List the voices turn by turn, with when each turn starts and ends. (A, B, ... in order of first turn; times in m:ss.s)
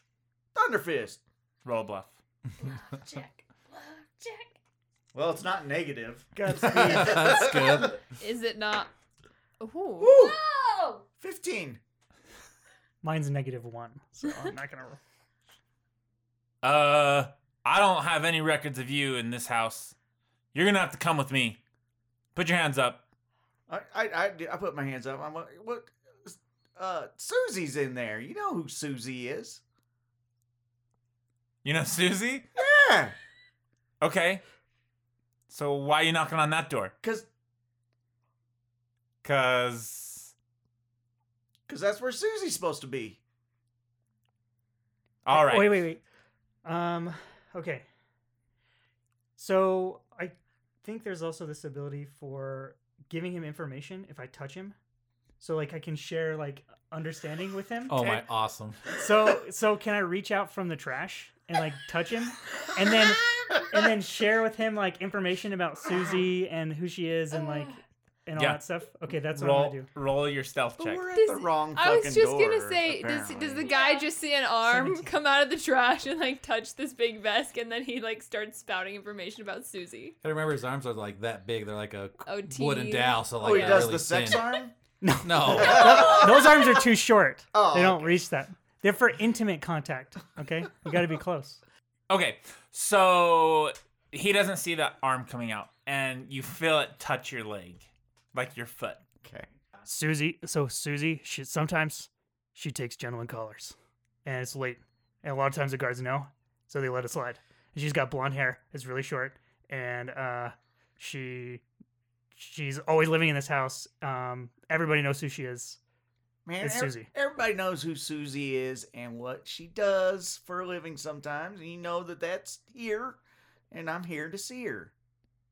0:00.5-0:01.2 A
0:01.6-0:02.2 B
0:02.6-0:04.5 C
0:05.1-0:08.0 A
0:06.4-0:07.4 D
0:06.7-0:08.0 E
0:08.2-0:08.9 F
0:09.6-0:10.2 F
0:10.0-0:10.4 A
0:10.0-0:11.0 C
0:11.2-0:11.8 A
0:13.0-0:15.0 D
0:16.6-0:19.9 B
0:20.5-0:21.6 B
0:22.3-0:23.0 B
0:23.7-0:29.6 A
0:31.6-0:32.5 B
0:32.6-0:33.2 A
0:34.0-0:34.4 B
0:35.5-0:36.9 B
0:37.0-0:37.3 A
0:39.2-0:40.3 B
0:41.7-0:43.2 A
0:45.2-0:45.8 B
0:45.3-0:46.0 D
0:46.6-0:47.8 D
0:49.4-0:54.7 D
0:55.4-0:58.2 D
0:57.9-0:58.8 E
0:58.9-1:09.9 D
1:07.3-1:07.8 C
1:09.3-1:11.0 B
1:10.8-1:13.7 A
1:11.1-1:20.2 F
1:13.6-1:14.1 C
1:14.6-1:15.1 D
1:20.2-1:24.6 E
1:22.2-1:23.9 F
1:23.4-1:24.7 A
1:25.0-1:31.6 D
1:25.2-1:26.0 E
1:25.5-1:26.6 A
1:27.5-1:28.1 A
1:32.1-1:39.0 B
1:39.2-1:39.5 A
1:39.8-1:51.6 D
1:52.4-1:55.8 D
1:56.4-2:03.2 A
1:56.6-1:57.1 D
2:03.7-2:04.9 A